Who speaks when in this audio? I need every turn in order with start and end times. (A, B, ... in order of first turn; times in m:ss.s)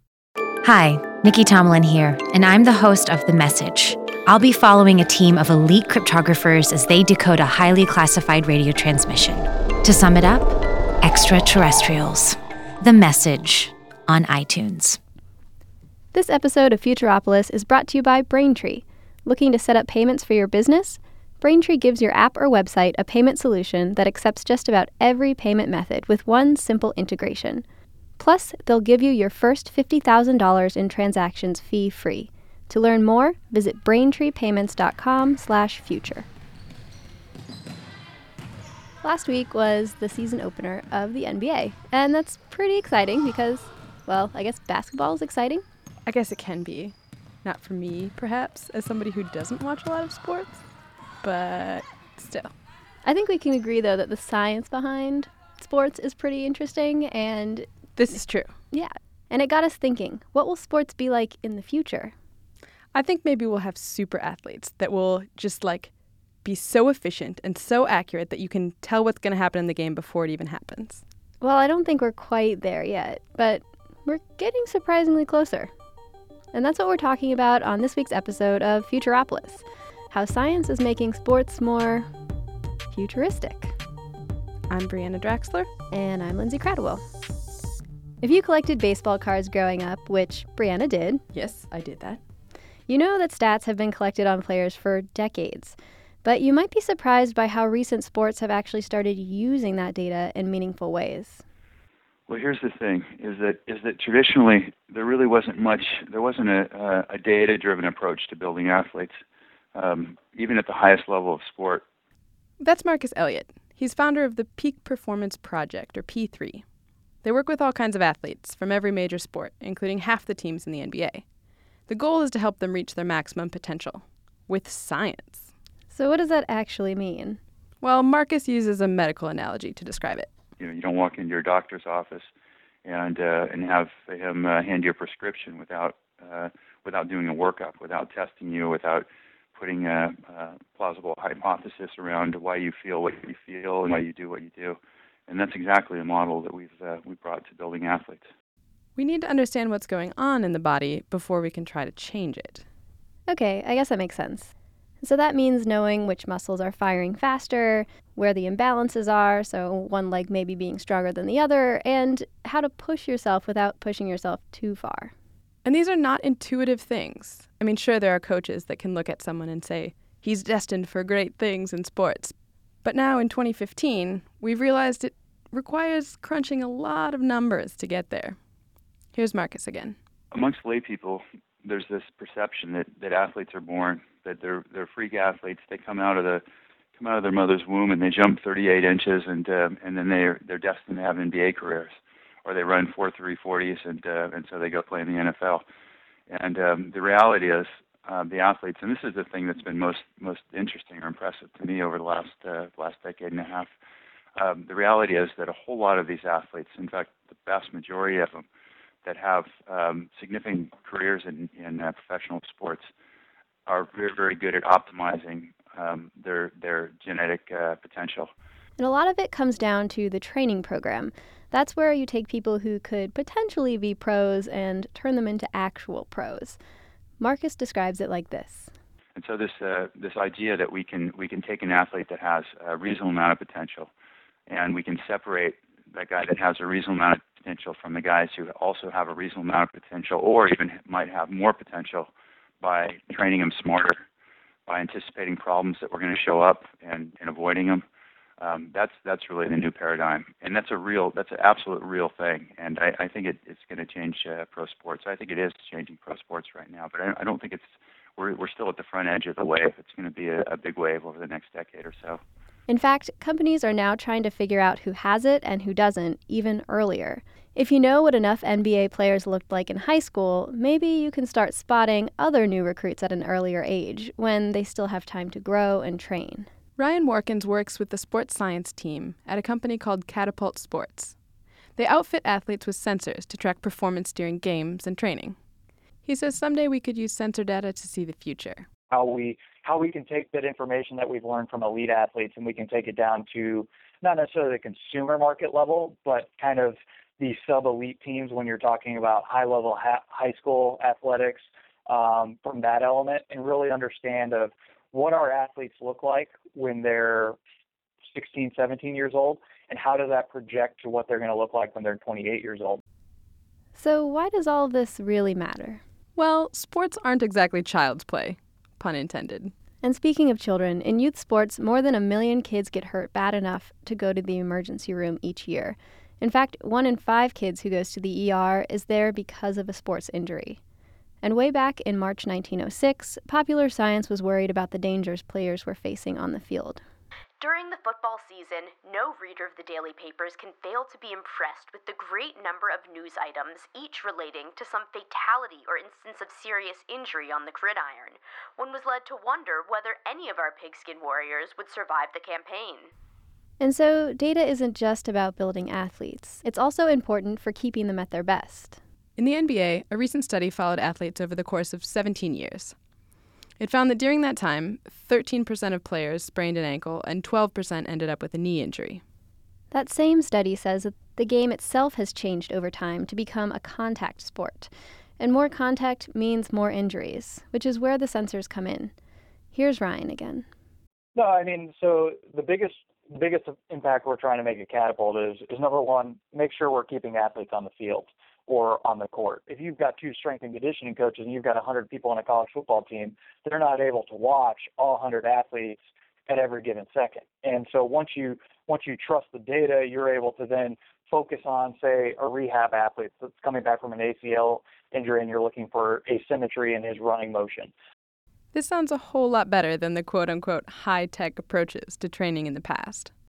0:00.6-0:15.0 A
0:16.1-0:27.6 B
0:28.2-0:36.3 B
0:39.0-0:45.6 B
0:46.1-0:50.6 C
0:51.2-0:52.5 C
0:53.0-0:57.7 B
0:58.0-0:58.5 C
0:58.7-1:02.1 B
1:02.9-1:05.9 C
1:06.4-1:11.0 C
1:11.4-1:15.7 B
1:16.5-1:22.1 B
1:22.9-1:23.8 B
1:24.7-1:25.7 C
1:25.9-1:27.0 B
1:28.2-1:31.2 B
1:31.3-1:32.2 C
1:32.9-1:41.4 B
1:42.3-1:49.2 D
1:49.7-1:51.8 D
1:52.6-1:56.6 C
1:57.2-2:01.2 C
2:01.9-2:05.5 C
2:05.9-2:07.4 B
2:07.8-2:10.3 C
2:10.6-2:12.3 D
2:12.8-2:28.3 D
2:29.0-2:32.6 C
2:33.3-2:45.1 B
2:45.6-2:58.4 C
2:59.1-3:00.0 C
3:00.3-3:06.4 D
3:07.0-3:15.6 D
3:16.3-3:23.7 D
3:24.4-3:28.5 D
3:29.0-3:32.9 D
3:33.7-3:38.3 D
3:38.8-3:46.6 B
3:47.2-3:48.7 B
3:49.2-3:53.9 D
3:54.5-4:02.1 D
4:02.6-4:04.0 D
4:04.7-4:07.8 D
4:08.4-4:22.2 D
4:22.7-4:36.5 B
4:36.8-4:41.2 C
4:41.8-4:45.4 C
4:46.0-4:48.7 C
4:48.9-5:07.4 E
5:08.1-5:12.8 E
5:13.8-5:15.8 B
5:16.2-5:19.5 C
5:19.8-5:30.6 B
5:31.2-5:36.8 B
5:37.4-5:52.9 F
5:53.6-5:58.8 B
5:59.2-6:02.8 C
6:03.6-6:09.0 C
6:09.7-6:18.9 B
6:19.5-6:20.5 B
6:21.2-6:47.7 E
6:48.5-6:53.1 C